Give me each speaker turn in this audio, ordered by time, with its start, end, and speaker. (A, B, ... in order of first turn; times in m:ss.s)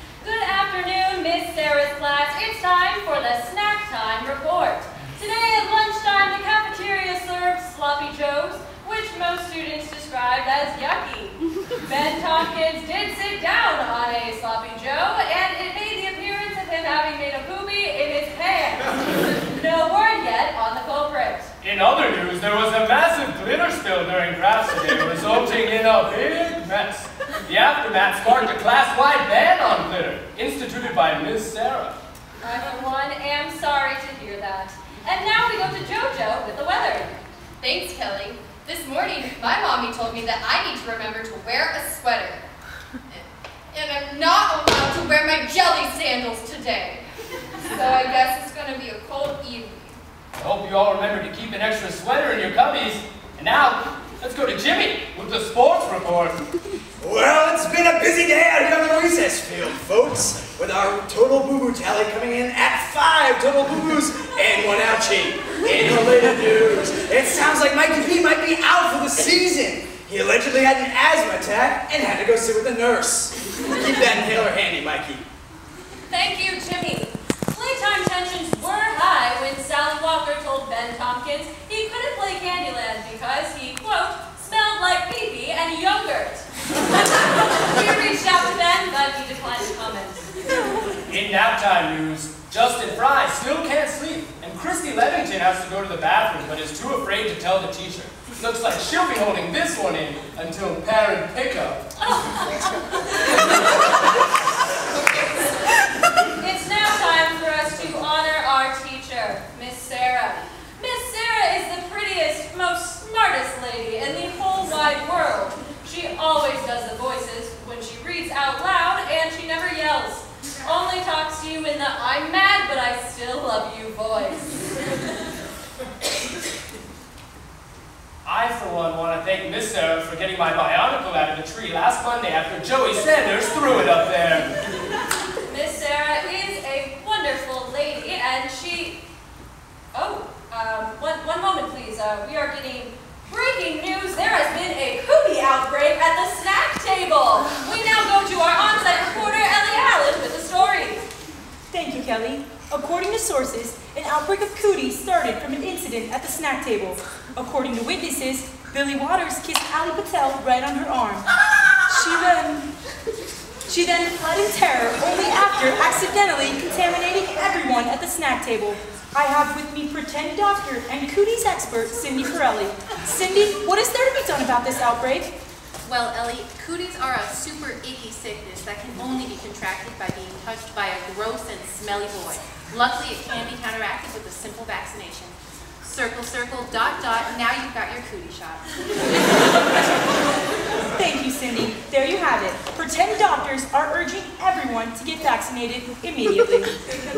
0:00.2-0:21.5 A
0:21.6-0:32.0 B
0:32.4-0:37.2 A
0:37.6-0:42.4 C
0:43.1-0:47.0 C
0:47.6-0:50.0 C
0:50.4-0:56.4 B
0:57.0-1:15.2 D
1:16.1-1:30.3 A
1:31.1-1:41.9 B
1:42.0-1:43.9 A
1:46.3-2:04.5 A
2:08.2-2:14.5 B
2:15.4-2:19.0 A
2:19.9-2:31.0 A
2:31.7-2:42.7 E
2:43.7-2:55.3 E
2:55.8-3:09.5 F
3:10.8-3:16.8 E